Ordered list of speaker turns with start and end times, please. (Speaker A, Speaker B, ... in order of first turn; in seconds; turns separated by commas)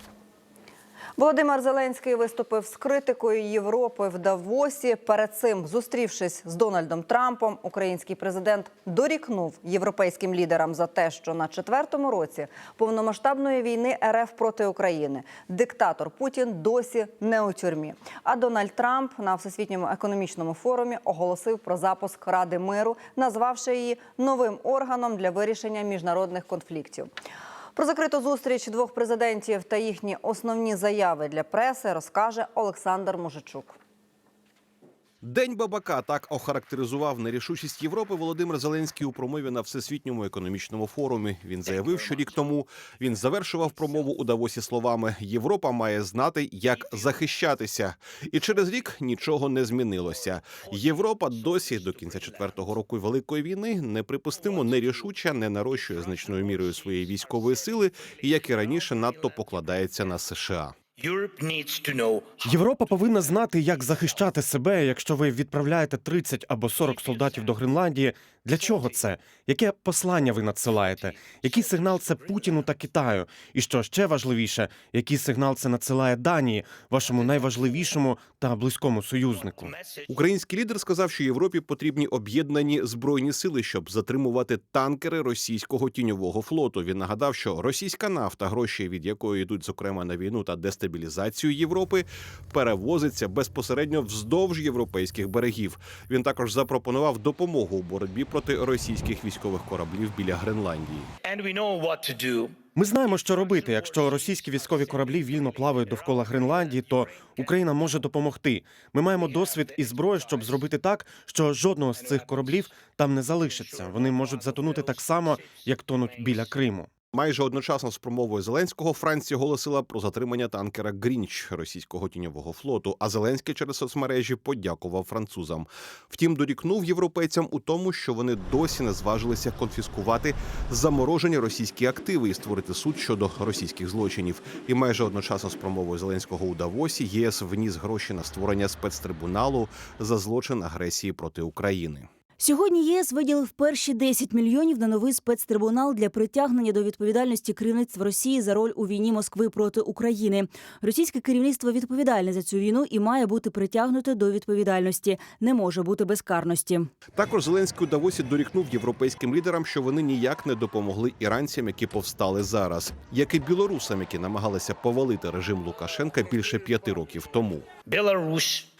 Speaker A: 1.2-27.1, Speaker A: 27.7-33.8, Speaker B: 35.2-60.8, Speaker C: 61.0-62.3, Speaker D: 62.4-79.7, Speaker B: 80.1-101.1, Speaker C: 101.2-102.5, Speaker D: 102.7-116.9, Speaker B: 117.1-142.1, Speaker E: 142.4-156.9, Speaker B: 157.1-167.7, Speaker C: 167.9-168.7